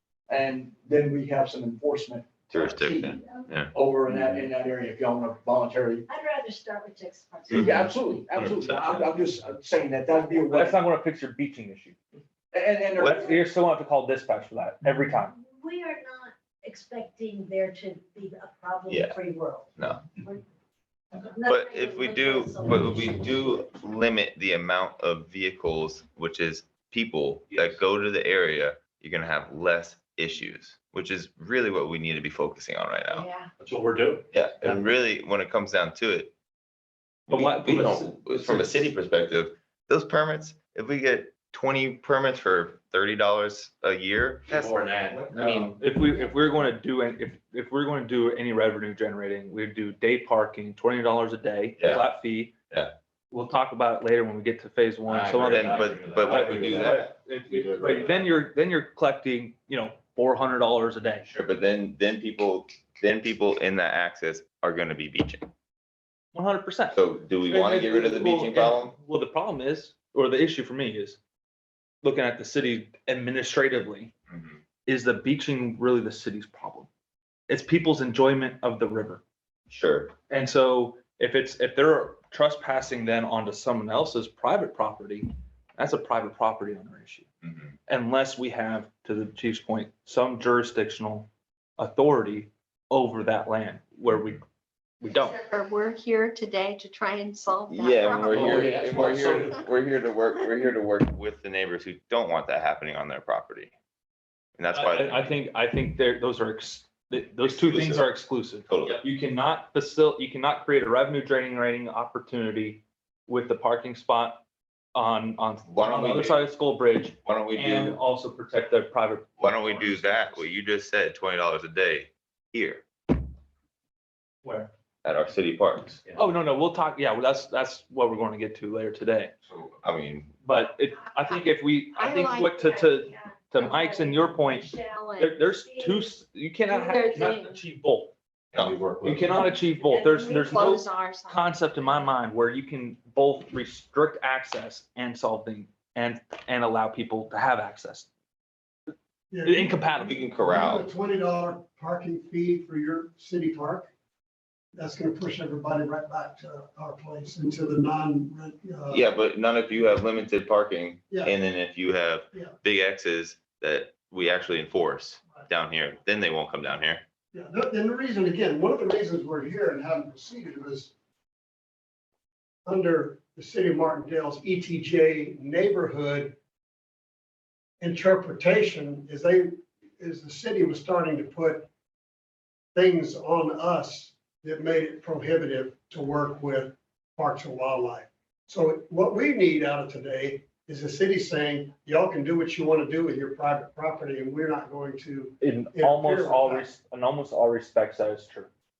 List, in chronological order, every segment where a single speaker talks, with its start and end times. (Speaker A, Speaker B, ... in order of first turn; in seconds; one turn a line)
Speaker A: 0.3-3.2
Speaker B: 2.5-4.5
Speaker A: 3.7-6.0
Speaker C: 6.1-8.0
Speaker A: 7.5-10.8
Speaker B: 7.5-9.1
Speaker D: 10.5-12.0
Speaker A: 12.5-13.3
Speaker D: 13.0-15.3
Speaker C: 15.3-19.7
Speaker B: 18.9-19.2
Speaker B: 19.8-20.1
Speaker C: 21.2-23.6
Speaker B: 21.4-33.2
Speaker E: 33.1-33.5
Speaker F: 33.6-34.2
Speaker B: 34.3-36.3
Speaker B: 37.3-45.7
Speaker D: 37.3-38.8
Speaker F: 44.5-45.8
Speaker D: 45.3-52.5
Speaker B: 51.8-52.1
Speaker D: 53.3-61.2
Speaker F: 55.0-58.2
Speaker B: 55.3-57.1
Speaker B: 61.3-65.5
Speaker D: 66.3-71.2
Speaker B: 66.9-68.9
Speaker D: 72.0-74.1
Speaker B: 74.3-74.6
Speaker D: 74.8-76.9
Speaker D: 77.5-79.2
Speaker B: 79.7-80.1
Speaker D: 80.3-87.3
Speaker B: 87.4-87.7
Speaker D: 87.9-94.4
Speaker D: 95.0-95.3
Speaker E: 95.1-98.7
Speaker B: 97.7-103.7
Speaker F: 98.2-99.6
Speaker B: 104.6-105.3
Speaker D: 104.7-114.4
Speaker B: 107.4-108.1
Speaker B: 108.6-109.0
Speaker D: 114.9-120.4
Speaker B: 115.7-116.4
Speaker B: 117.2-118.0
Speaker B: 119.4-122.8
Speaker D: 124.4-124.7
Speaker B: 125.0-126.0
Speaker D: 126.1-129.3
Speaker B: 129.4-130.3
Speaker D: 130.4-138.1
Speaker E: 131.1-135.5
Speaker E: 136.7-137.6
Speaker F: 138.5-139.4
Speaker B: 138.5-138.8
Speaker D: 139.0-148.1
Speaker E: 140.0-142.0
Speaker G: 149.3-149.8
Speaker D: 149.4-150.2
Speaker B: 150.0-150.9
Speaker G: 150.3-153.9
Speaker G: 154.7-159.1
Speaker B: 158.9-167.0
Speaker G: 161.1-161.3
Speaker G: 167.3-170.9
Speaker G: 172.7-176.3
Speaker G: 177.8-181.7
Speaker G: 182.7-196.7
Speaker D: 195.4-198.5